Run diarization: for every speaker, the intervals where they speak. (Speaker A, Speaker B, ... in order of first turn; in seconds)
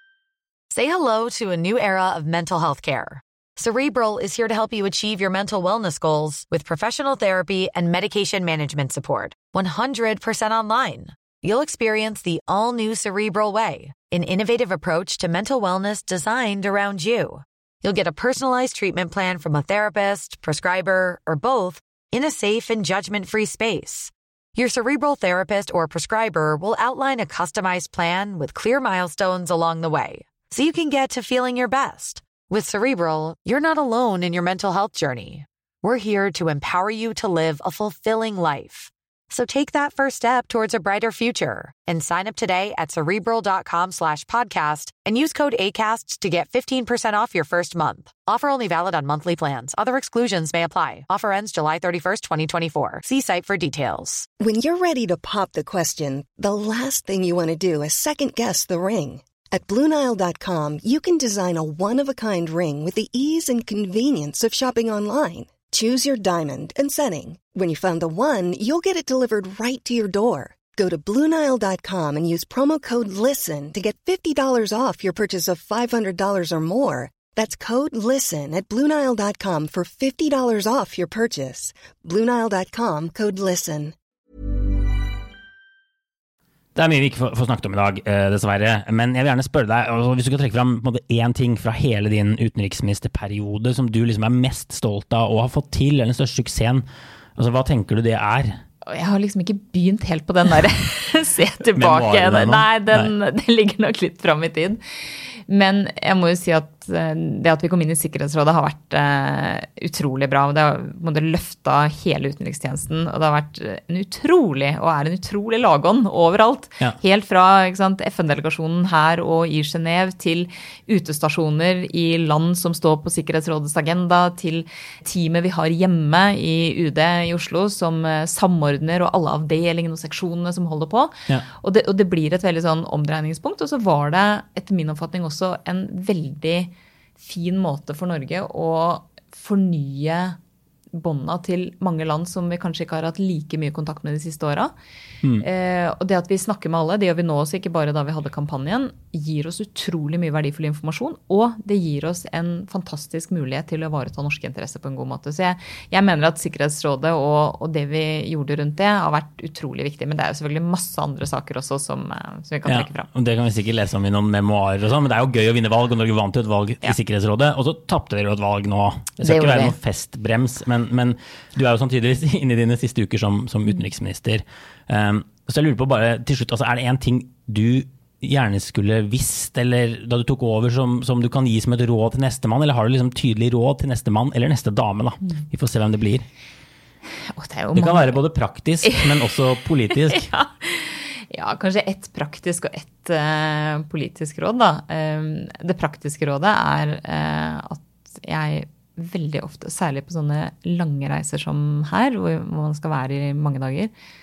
Speaker A: 0.7-54.3
Speaker B: 54.4-83.9
Speaker C: 86.7-98.6, 101.7-103.1, 162.7-186.2, 187.7-190.2
Speaker D: 98.8-140.4, 140.9-144.7, 145.4-163.1, 169.2-169.8, 187.3-188.2, 188.8-189.1, 189.9-203.9